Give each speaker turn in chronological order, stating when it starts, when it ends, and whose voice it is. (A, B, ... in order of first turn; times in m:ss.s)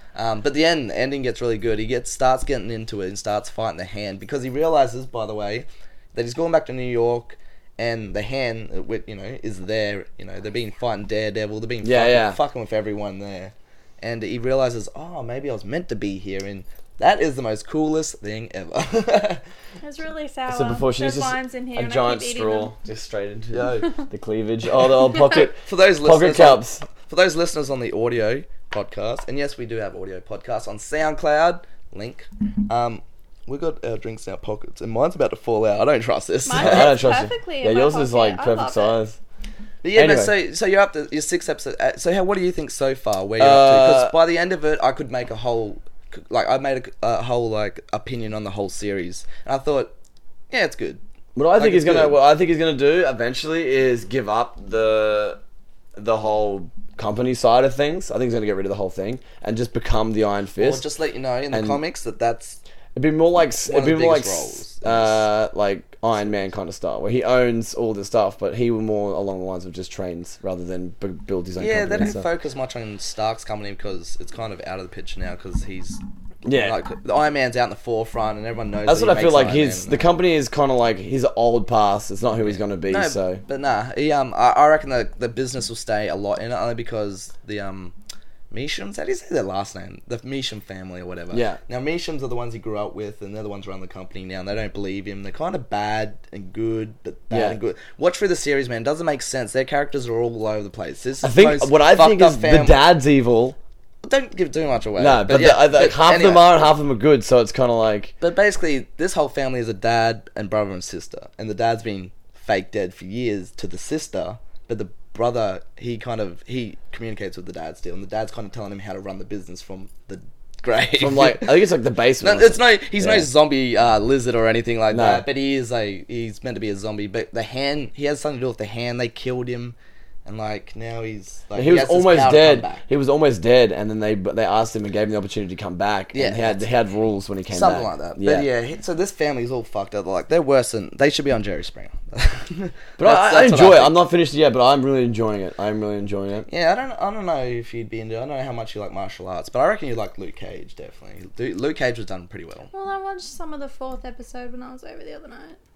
0:00.1-0:19.4 A
0:11.8-0:12.4 B
0:19.8-0:22.7 C
0:20.5-0:26.8 B
0:23.5-0:23.9 A
0:25.2-0:37.0 A
0:36.4-0:39.0 C
0:36.5-0:39.2 B
0:39.8-0:49.9 A
0:39.9-0:40.3 B
0:43.4-0:44.1 B
0:50.5-0:51.0 A
0:51.3-0:55.4 B
0:51.6-0:52.1 A
0:55.9-1:00.8 B
1:00.6-1:02.6 A
1:01.5-1:01.8 B
1:02.9-1:12.3 B
1:03.6-1:05.2 A
1:11.6-1:20.1 A
1:16.4-1:16.8 B
1:18.8-1:23.4 B
1:22.4-1:27.9 A
1:28.5-1:42.8 A
1:31.3-1:31.6 B
1:37.3-1:37.6 B
1:41.2-1:43.6 B
1:44.0-1:46.6 A
1:45.0-1:48.1 B
1:48.2-2:12.8 A
2:01.0-2:03.3 B
2:04.9-2:05.2 B
2:11.5-2:18.5 B
2:16.1-2:16.6 A
2:17.5-2:24.0 A
2:23.0-2:26.5 B
2:26.5-2:32.7 A
2:32.7-2:35.6 C